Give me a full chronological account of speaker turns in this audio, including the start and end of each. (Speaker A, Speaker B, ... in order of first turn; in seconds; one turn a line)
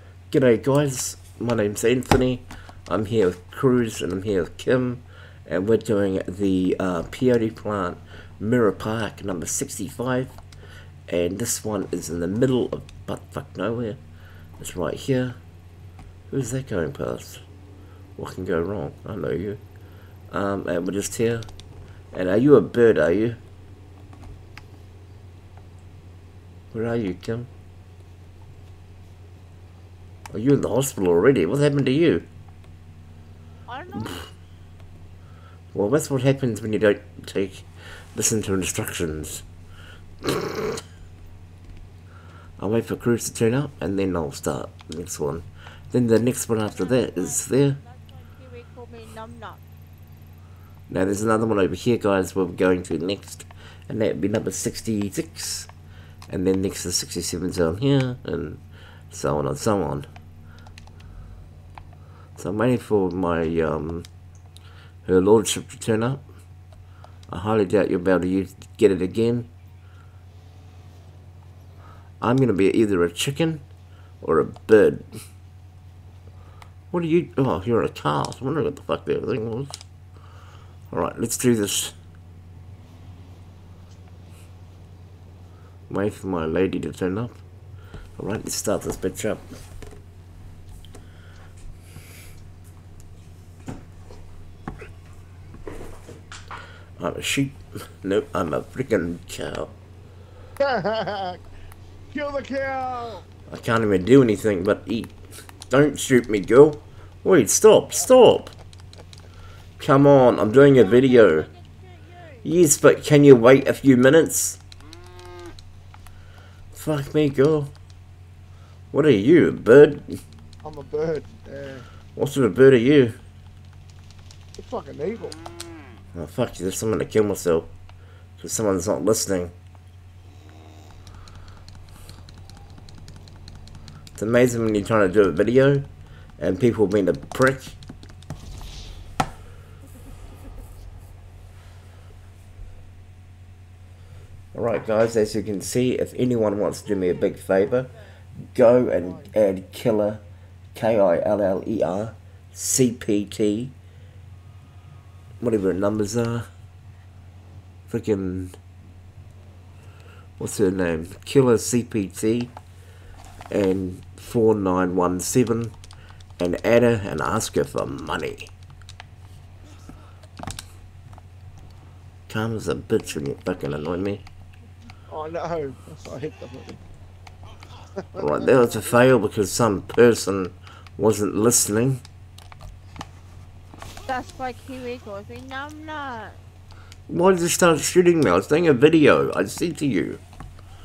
Speaker A: 0.3-10.4
Speaker A: 11.1-14.0
Speaker A: 14.6-15.4
Speaker A: 16.3-17.4
Speaker A: 18.2-19.6
Speaker A: 20.3-21.5
Speaker A: 22.1-23.4
Speaker A: 26.7-27.5
Speaker A: 30.3-32.2
Speaker B: 33.7-34.2
Speaker A: 35.7-39.5
Speaker A: 42.6-47.8
Speaker B: 46.6-49.6
Speaker A: 50.9-55.7
Speaker A: 56.3-60.1
Speaker A: 62.4-64.0
Speaker A: 65.0-66.2
Speaker A: 67.3-69.5
Speaker A: 72.2-73.7
Speaker A: 74.2-75.0
Speaker A: 76.9-79.8
Speaker A: 80.9-81.9
Speaker A: 85.9-87.4
Speaker A: 88.2-89.4
Speaker A: 97.0-99.7
Speaker C: 100.6-101.4
Speaker C: 102.1-103.2
Speaker A: 103.5-105.2
Speaker A: 105.7-108.5
Speaker A: 109.8-111.5
Speaker B: 110.6-112.5
Speaker A: 112.4-114.6
Speaker A: 116.7-117.7
Speaker A: 118.9-120.1
Speaker C: 120.6-121.8
Speaker A: 122.1-123.2
Speaker C: 124.6-125.4
Speaker A: 126.1-127.7
Speaker A: 128.4-129.5
Speaker A: 134.2-135.9
Speaker A: 136.4-137.8
Speaker A: 144.5-147.9
Speaker B: 146.8-147.6
Speaker A: 148.5-150.2
Speaker A: 150.7-153.7
Speaker A: 155.4-156.4
Speaker A: 157.9-158.6
Speaker A: 160.4-162.5
Speaker A: 163.5-165.7
Speaker A: 166.4-168.5
Speaker A: 172.3-174.2
Speaker C: 175.1-176.8
Speaker A: 178.2-182.0
Speaker B: 184.1-186.4
Speaker A: 187.1-190.2